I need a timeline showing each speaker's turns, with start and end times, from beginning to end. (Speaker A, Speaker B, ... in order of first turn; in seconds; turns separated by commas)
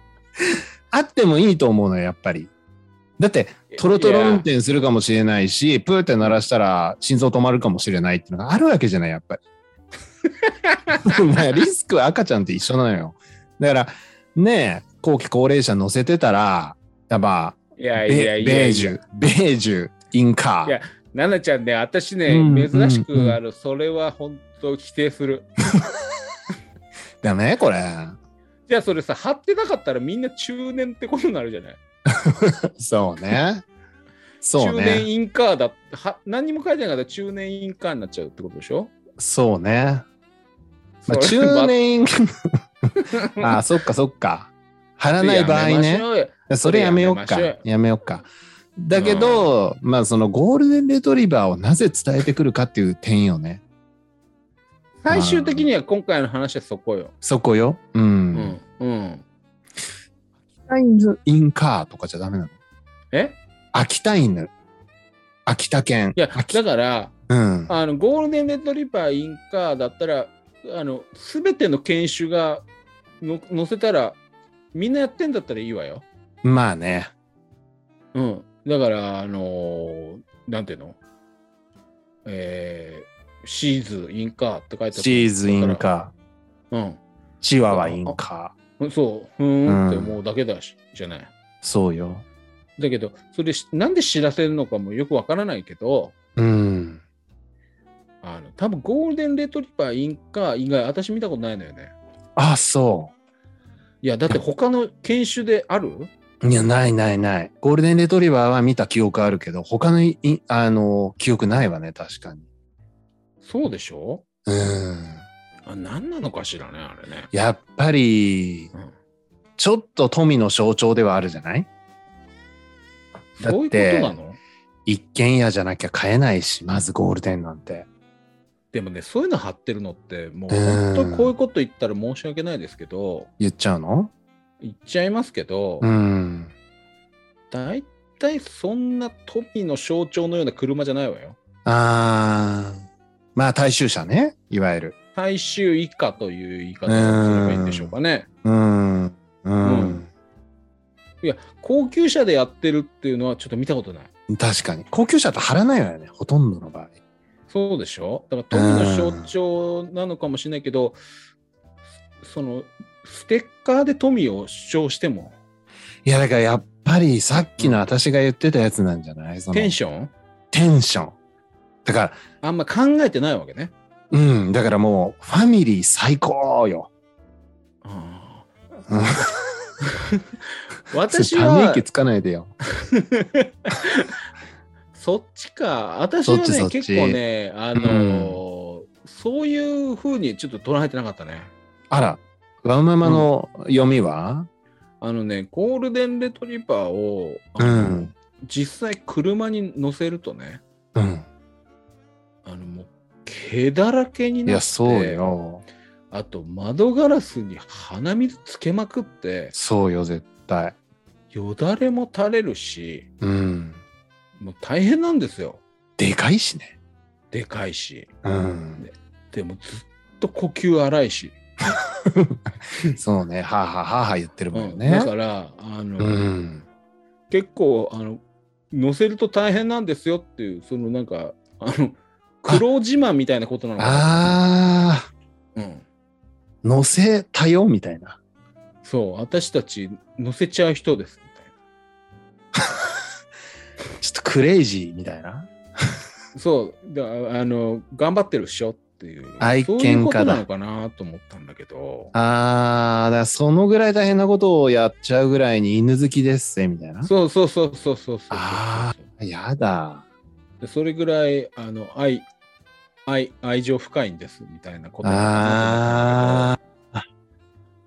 Speaker A: 0.9-2.5, Speaker A: 3.2-9.4, Speaker B: 3.7-4.5, Speaker B: 10.4-11.0, Speaker A: 11.0-20.8, Speaker B: 17.8-19.0, Speaker B: 20.6-25.5, Speaker A: 22.3-23.4, Speaker A: 27.2-28.1, Speaker B: 28.7-31.8, Speaker A: 32.1-33.6, Speaker A: 34.4-35.1, Speaker B: 34.5-38.9, Speaker A: 39.2-40.0, Speaker B: 41.0-41.7, Speaker A: 41.0-42.2, Speaker B: 43.0-43.5, Speaker A: 43.4-53.6, Speaker B: 45.2-47.6, Speaker B: 48.9-49.5, Speaker B: 55.0-57.1, Speaker A: 55.1-55.7, Speaker A: 57.2-58.5, Speaker B: 58.3-59.2, Speaker A: 60.7-62.5, Speaker B: 63.1-63.4, Speaker A: 63.7-64.5, Speaker A: 65.5-66.6, Speaker B: 66.1-67.1, Speaker A: 67.3-67.7, Speaker B: 67.7-72.6, Speaker B: 73.2-74.2, Speaker B: 74.7-76.0, Speaker A: 76.4-77.1, Speaker B: 78.1-81.0, Speaker B: 82.2-85.8, Speaker A: 84.9-86.1, Speaker B: 86.7-87.0, Speaker A: 87.4-88.5, Speaker B: 87.7-88.2, Speaker B: 88.8-91.3, Speaker A: 89.7-90.2, Speaker A: 91.6-92.2, Speaker B: 92.8-96.1, Speaker A: 96.4-97.0, Speaker B: 98.2-101.9, Speaker A: 102.3-103.1, Speaker B: 104.0-106.1, Speaker A: 106.4-112.4, Speaker B: 113.4-114.2, Speaker A: 114.5-115.2, Speaker B: 115.7-117.3, Speaker A: 117.3-118.7, Speaker A: 119.6-121.7, Speaker B: 123.3-124.4, Speaker A: 123.4-124.2, Speaker A: 124.8-127.9, Speaker B: 128.7-133.3, Speaker A: 130.5-131.3, Speaker A: 133.4-134.1, Speaker B: 134.6-135.9, Speaker A: 135.8-136.5, Speaker B: 137.5-141.4, Speaker A: 141.6-142.8, Speaker A: 143.3-144.9, Speaker B: 145.2-148.3, Speaker A: 146.9-147.9, Speaker A: 148.4-150.1, Speaker B: 149.6-150.0, Speaker B: 151.2-154.1, Speaker A: 154.3-156.9, Speaker B: 157.5-161.0, Speaker A: 158.5-159.3, Speaker B: 162.2-165.3, Speaker A: 166.0-169.8, Speaker B: 167.6-167.8, Speaker B: 169.5-170.1, Speaker A: 170.5-171.2, Speaker A: 171.8-172.2, Speaker B: 172.4-173.7, Speaker A: 174.1-176.9, Speaker B: 177.8-178.5, Speaker A: 178.9-179.4, Speaker B: 180.9-181.8, Speaker A: 181.1-182.5, Speaker B: 182.7-184.1, Speaker B: 184.9-191.5, Speaker A: 186.2-187.2, Speaker A: 187.7-188.4, Speaker A: 191.9-194.5, Speaker B: 193.0-193.3, Speaker B: 195.0-200.6, Speaker A: 197.6-198.1, Speaker A: 200.9-201.2, Speaker B: 202.4-205.4, Speaker A: 204.4-205.6, Speaker B: 206.1-209.5, Speaker A: 209.5-210.8, Speaker B: 211.3-213.0, Speaker A: 213.2-213.8, Speaker B: 214.4-215.6, Speaker A: 216.0-216.7, Speaker B: 217.3-218.1, Speaker A: 218.2-218.8, Speaker B: 218.8-221.4, Speaker A: 221.6-225.1, Speaker B: 224.5-226.2, Speaker A: 226.0-226.7, Speaker B: 227.3-228.2, Speaker B: 228.7-234.4, Speaker A: 233.8-235.1, Speaker B: 235.5-235.8, Speaker A: 236.6-238.2, Speaker B: 238.8-241.5, Speaker A: 244.0-245.5, Speaker B: 246.3-252.1, Speaker A: 249.4-250.4, Speaker A: 252.1-257.1, Speaker B: 257.0-259.1, Speaker A: 258.3-260.0, Speaker B: 260.6-262.3, Speaker B: 263.1-266.6, Speaker A: 265.0-267.0